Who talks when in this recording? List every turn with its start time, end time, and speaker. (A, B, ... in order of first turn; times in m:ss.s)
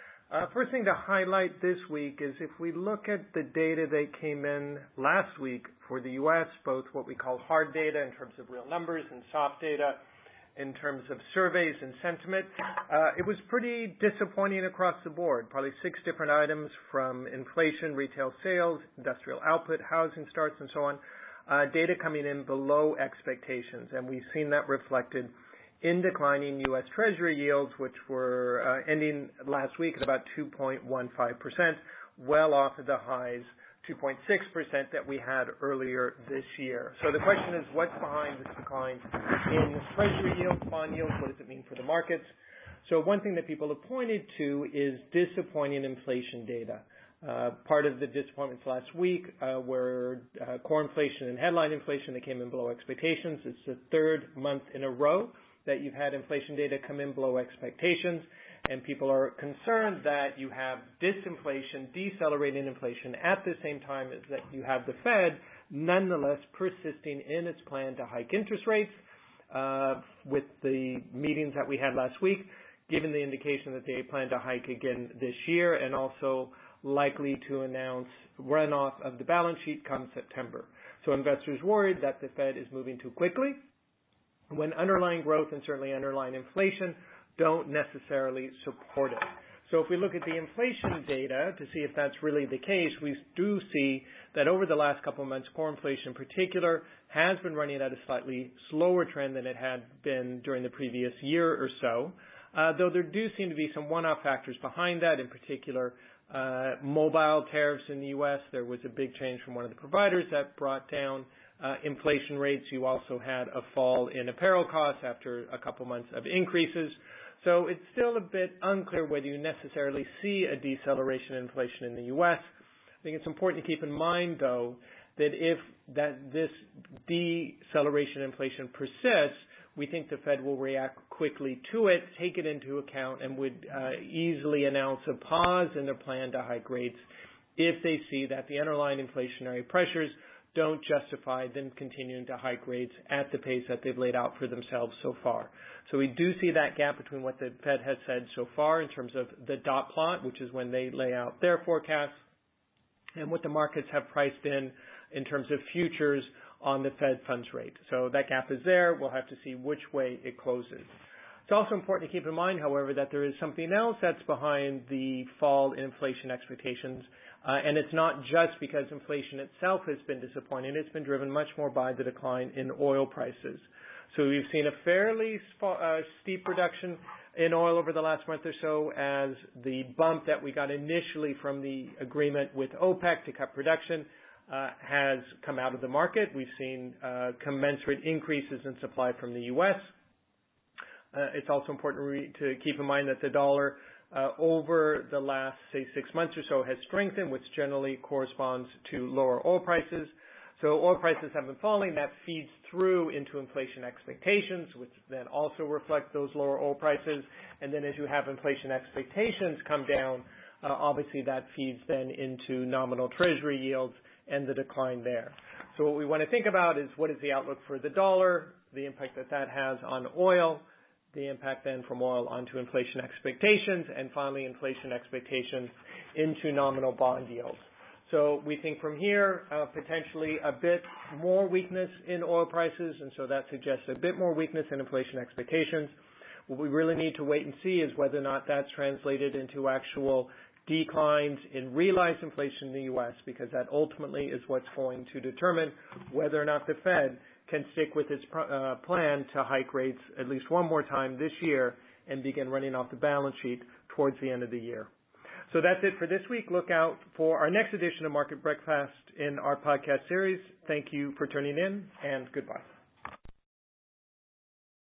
0:00.3-0:10.0 A
0:10.6-0:25.3 A
0:25.8-0:42.3 A
0:42.8-1:08.9 A
1:09.5-1:23.6 A
1:24.5-2:02.4 A
2:03.0-2:17.0 A
2:17.6-2:32.1 A
2:33.2-2:40.9 A
2:41.5-3:09.8 A
3:11.1-3:55.9 A
3:56.5-4:14.9 A
4:15.5-4:22.7 A